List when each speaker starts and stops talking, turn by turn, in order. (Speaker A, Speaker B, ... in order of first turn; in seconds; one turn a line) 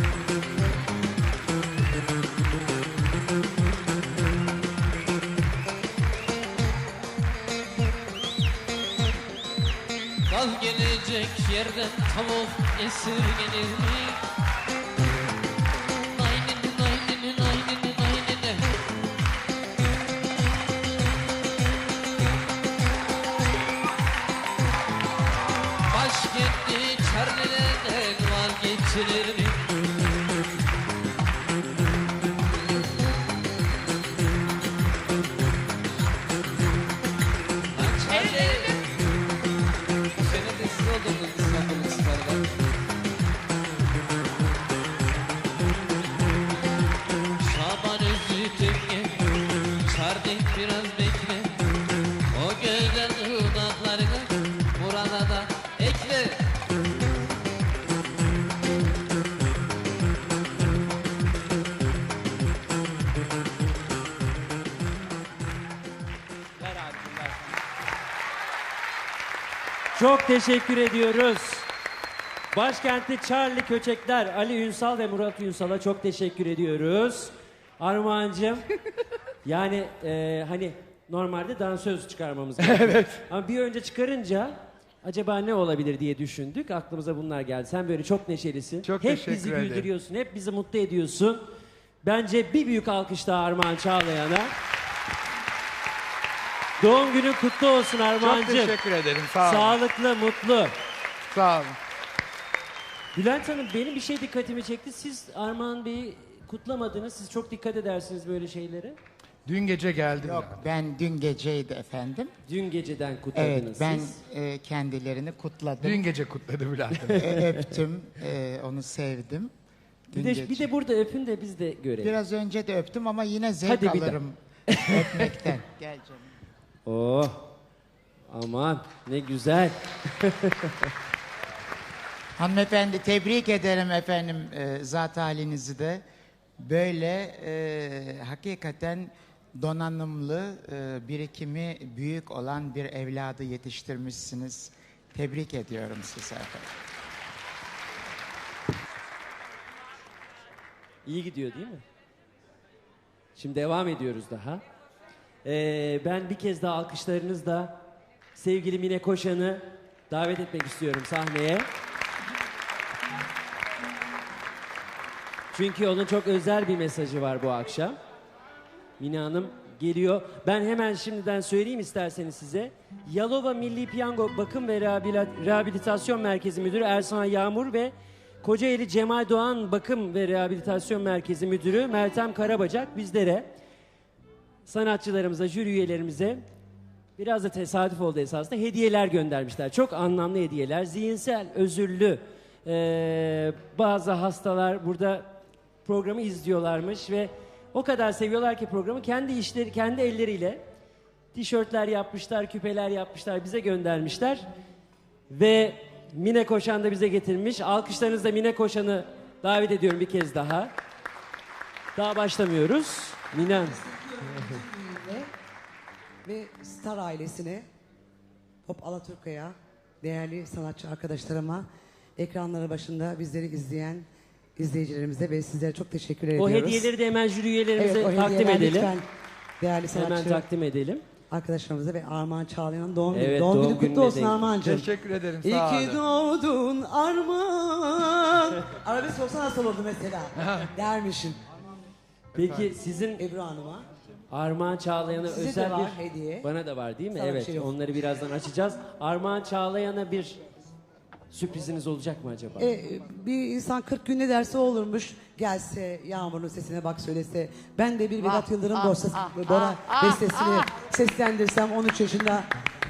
Speaker A: 10.3-14.2
Speaker A: 16.1-18.7
Speaker A: 25.9-29.6
Speaker A: 37.7-38.8
Speaker A: 40.2-42.5
Speaker A: 47.4-49.3
Speaker A: 49.8-51.5
Speaker A: 52.3-56.5
Speaker B: 66.6-67.4
Speaker B: 69.9-71.7
Speaker B: 72.5-78.7
Speaker B: 79.4-91.5
Speaker C: 82.7-83.2
Speaker C: 88.8-89.9
Speaker B: 92.0-94.5
Speaker B: 96.8-98.7
Speaker C: 98.2-99.8
Speaker B: 99.4-100.8
Speaker C: 101.3-101.8
Speaker B: 103.1-109.0
Speaker C: 109.5-110.6
Speaker D: 110.1-112.3
Speaker B: 112.5-114.2
Speaker D: 113.3-116.0
Speaker C: 115.8-117.5
Speaker B: 117.0-117.4
Speaker D: 117.1-119.5
Speaker D: 120.1-120.7
Speaker B: 120.1-122.1
Speaker D: 122.0-126.2
Speaker B: 123.6-124.2
Speaker B: 124.7-125.5
Speaker B: 126.8-127.5
Speaker B: 128.3-130.9
Speaker D: 132.4-136.0
Speaker D: 136.6-146.7
Speaker B: 151.1-151.8
Speaker B: 153.3-154.6
Speaker B: 155.4-157.8
Speaker B: 158.3-161.7
Speaker B: 165.5-167.9
Speaker B: 169.0-183.5
Speaker B: 184.7-186.4
Speaker B: 187.2-195.3
Speaker B: 195.8-200.6
Speaker B: 201.3-204.4
Speaker B: 205.3-210.7
Speaker B: 211.9-213.8
Speaker E: 213.3-215.3
Speaker E: 216.2-217.6
Speaker E: 218.7-221.6
Speaker E: 222.2-224.1
Speaker E: 224.6-226.9
Speaker B: 226.4-228.9
Speaker E: 227.8-229.1
Speaker E: 229.6-230.4
Speaker B: 229.9-231.0
Speaker E: 231.3-241.4
Speaker B: 233.1-234.5
Speaker C: 234.6-236.0
Speaker C: 242.3-242.7
Speaker B: 242.3-243.2
Speaker E: 243.2-243.8
Speaker B: 244.3-250.4
Speaker E: 245.3-246.5
Speaker E: 247.1-247.8
Speaker B: 251.3-252.7
Speaker E: 252.6-262.5